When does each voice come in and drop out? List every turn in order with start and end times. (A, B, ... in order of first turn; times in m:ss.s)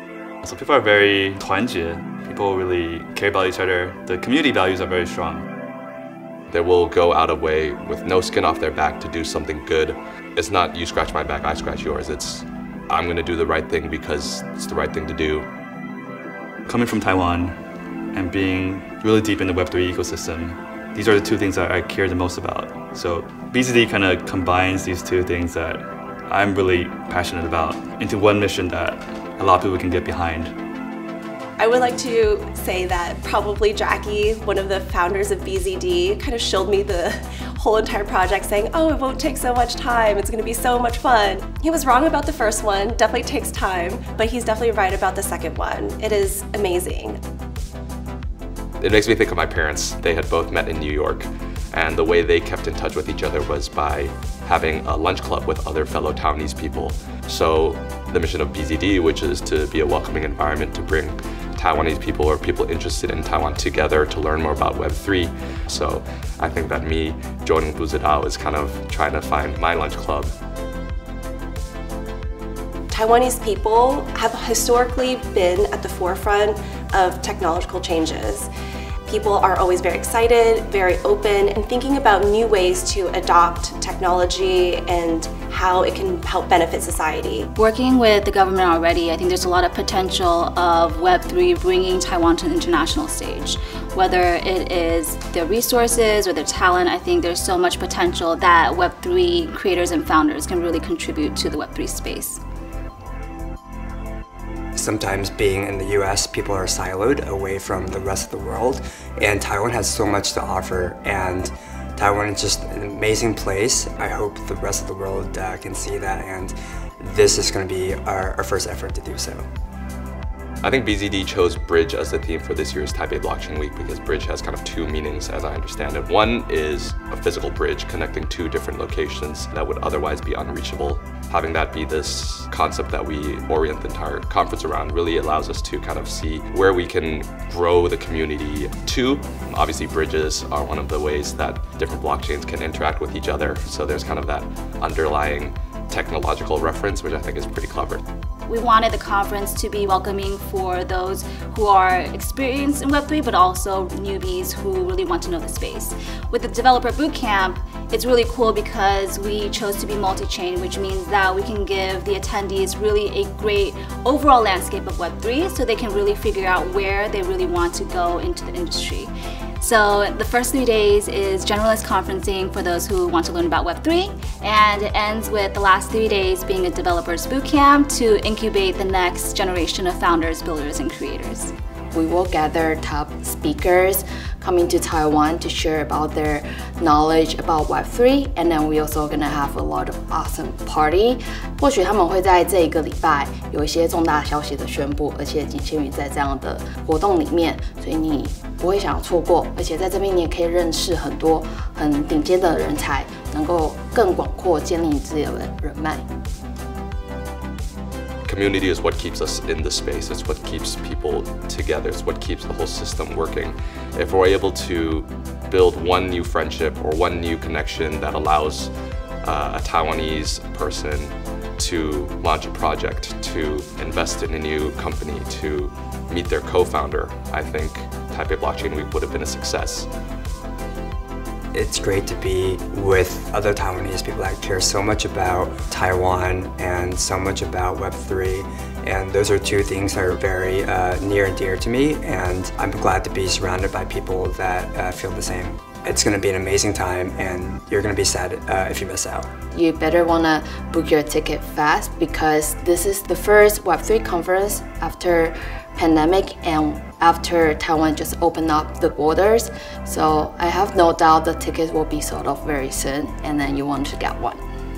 0:00.4-0:05.4 A
0:06.5-0:15.5 B
0:16.7-0:17.6 A
0:18.1-0:30.5 A
0:31.6-0:47.2 C
0:48.8-1:10.3 B
1:12.9-1:18.5 C
1:19.1-1:27.5 C
1:27.6-1:42.4 D
1:44.8-1:59.4 E
2:00.6-2:28.0 B
2:28.5-3:01.5 D
3:01.9-3:26.0 F
3:28.2-3:38.7 B
3:39.2-3:49.9 B
3:51.5-4:09.3 E
4:09.5-4:24.4 F